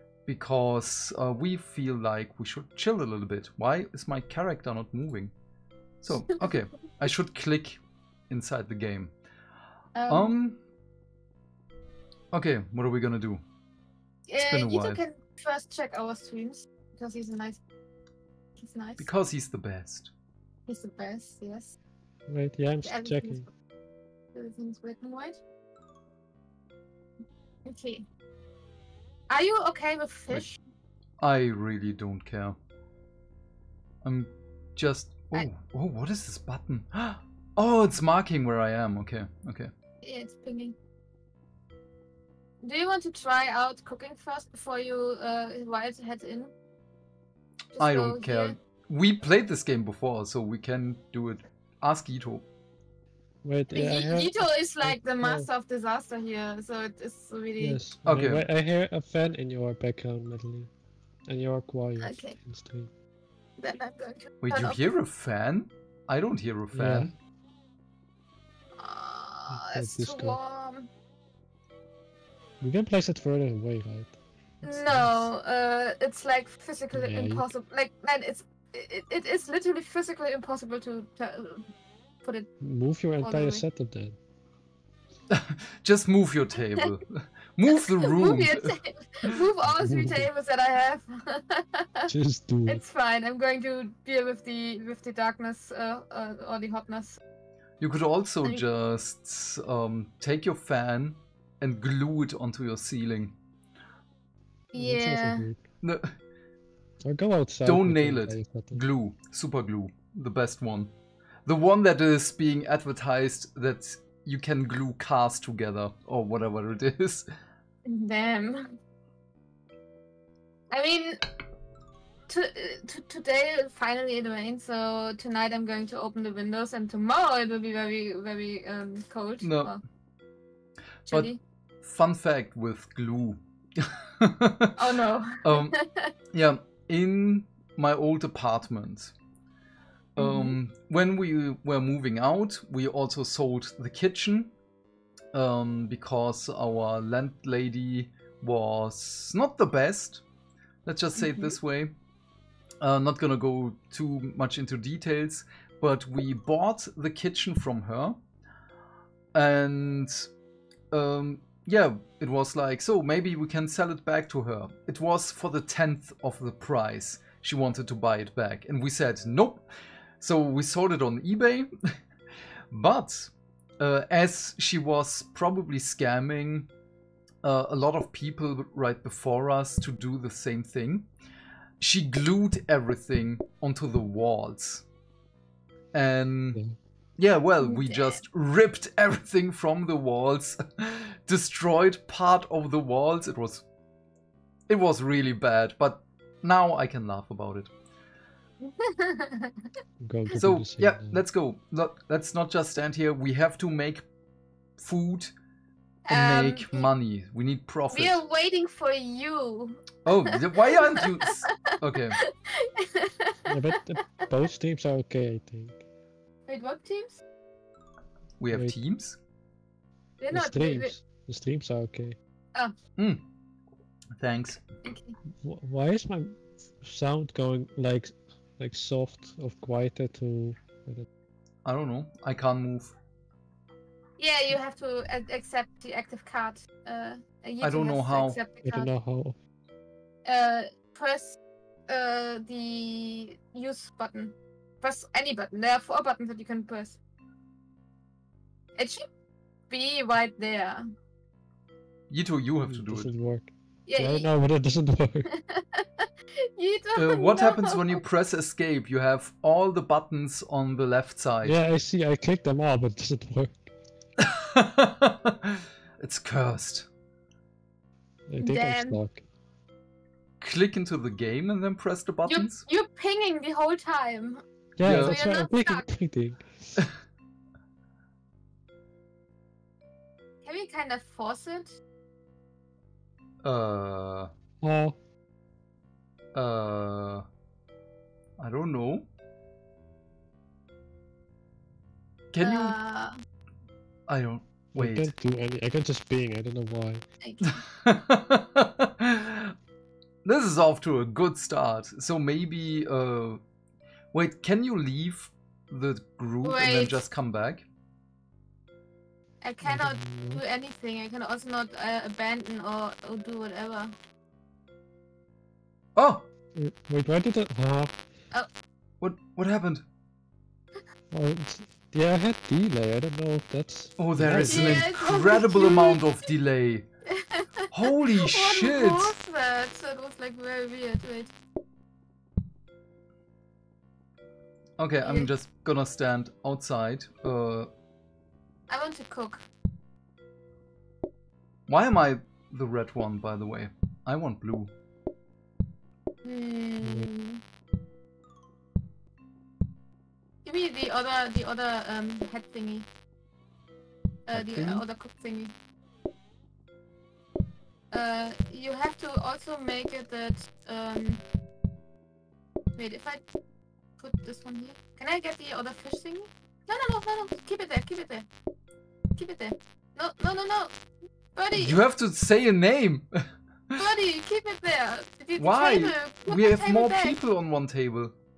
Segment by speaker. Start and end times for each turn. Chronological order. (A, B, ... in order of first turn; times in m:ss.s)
0:00.3-0:05.3 A
0:06.0-0:09.1 A
0:10.0-0:10.3 B
0:10.1-0:10.6 A
0:12.3-0:13.4 A
0:14.3-0:17.6 B
0:14.4-0:15.0 A
0:18.6-0:19.1 B
0:19.0-0:20.1 A
0:20.7-0:21.8 B
0:22.3-0:23.5 C
0:22.8-0:23.4 B
0:24.3-0:25.4 B
0:27.7-0:28.0 B
0:29.3-0:30.6 B
0:31.2-0:32.6 A
0:34.0-0:39.7 A
0:40.0-0:40.8 B
0:42.6-0:46.5 B
0:47.8-0:48.6 B
0:47.8-0:52.5 A
0:53.4-0:55.5 C
0:53.7-0:57.8 B
0:57.6-1:00.7 C
0:58.1-0:58.4 A
1:01.3-1:02.9 C
1:02.0-1:02.4 B
1:03.6-1:04.8 B
1:04.4-1:07.1 A
1:06.7-1:07.1 C
1:08.8-1:10.9 B
1:09.5-1:10.4 C
1:12.6-1:15.3 C
1:14.6-1:21.6 B
1:16.9-1:17.5 C
1:22.2-1:22.5 B
1:22.6-1:24.2 C
1:23.2-1:23.6 B
1:25.3-1:28.7 A
1:27.7-1:32.1 B
1:29.7-1:30.3 C
1:32.1-1:32.8 C
1:32.7-1:37.2 B
1:37.8-1:43.4 A
1:44.7-1:45.5 B
1:44.8-1:45.6 C
1:45.8-1:46.1 A
1:47.0-1:48.8 C
1:47.6-1:50.9 A
1:51.5-1:57.3 A
1:57.9-1:58.7 B
2:00.7-2:01.2 B
2:02.3-2:09.8 B
2:09.4-2:09.8 A
2:11.1-2:14.8 A
2:11.1-2:11.4 B
2:14.8-2:16.1 B
2:15.4-2:15.7 A
2:16.3-2:19.2 A
2:20.2-2:24.5 A
2:20.2-2:20.6 B
2:25.3-2:30.2 A
2:30.8-2:32.0 A
2:31.2-2:31.6 B
2:32.8-2:38.2 A
2:39.3-2:40.3 A
2:40.9-2:49.7 A
2:50.2-2:52.0 A
2:52.7-2:56.7 A
2:57.4-3:01.1 A
3:01.8-3:04.9 A
3:05.9-3:06.6 A
3:07.2-3:13.6 A
3:07.6-3:08.2 B
3:14.7-3:17.7 A
3:18.6-3:19.7 B
3:20.0-3:21.2 C
3:20.4-3:24.1 A
3:24.8-3:25.3 A
3:26.1-3:26.9 B
3:26.1-3:28.2 A
3:27.9-3:33.6 B
3:30.0-3:32.2 A
3:33.5-3:35.8 C
3:36.5-3:37.2 B
3:38.4-3:39.2 A
3:40.2-3:41.0 B
3:40.3-3:42.2 C
3:43.0-3:43.2 A
3:44.2-3:44.6 A
3:44.8-3:45.2 B
3:45.4-3:51.1 C
3:51.6-3:53.0 A
3:54.2-3:58.9 B
3:57.6-3:58.4 A
3:58.6-3:59.4 C
4:00.2-4:01.4 B
4:01.9-4:07.0 B
4:08.8-4:09.0 B
4:09.7-4:10.8 B
4:12.1-4:13.1 A
4:12.6-4:15.3 C
4:13.9-4:14.3 B
4:15.3-4:18.0 B
4:17.0-4:21.6 A
4:21.4-4:23.7 C
4:24.2-4:26.9 A
4:28.3-4:29.2 C
4:28.4-4:29.0 B
4:30.4-4:32.6 A
4:32.3-4:35.8 B
4:34.8-4:36.8 C
4:34.8-4:35.2 A
4:40.4-4:41.8 B
4:43.4-4:44.3 A
4:44.6-4:45.0 C
4:46.3-4:47.3 A
4:48.4-4:49.1 A
4:52.3-4:52.8 A
4:52.4-4:53.1 B
4:54.1-4:55.1 A
4:54.8-4:57.0 C
4:57.2-4:57.6 B
4:57.4-4:59.5 A
5:00.2-5:03.4 A
5:04.1-5:07.7 A
5:06.4-5:07.0 B
5:09.4-5:13.9 B
5:09.6-5:10.4 C
5:16.0-5:16.3 A
5:16.5-5:18.0 C
5:19.0-5:19.8 A
5:21.1-5:25.0 C
5:24.0-5:26.9 A
5:24.5-5:26.0 B
5:27.1-5:31.3 B
5:27.7-5:29.1 A
5:34.8-5:37.7 A
5:35.0-5:35.3 B
5:38.7-5:39.4 B
5:41.7-5:44.7 A
5:46.2-5:47.4 B
5:46.8-5:47.1 C
5:50.4-5:52.9 B
5:54.3-5:55.5 B
5:54.3-5:54.8 A
5:57.9-6:01.2 B
6:02.8-6:03.2 B
6:04.0-6:08.3 B
6:09.2-6:10.7 B
6:11.4-6:11.8 B
6:11.5-6:13.8 A
6:13.8-6:17.2 B
6:15.4-6:18.1 A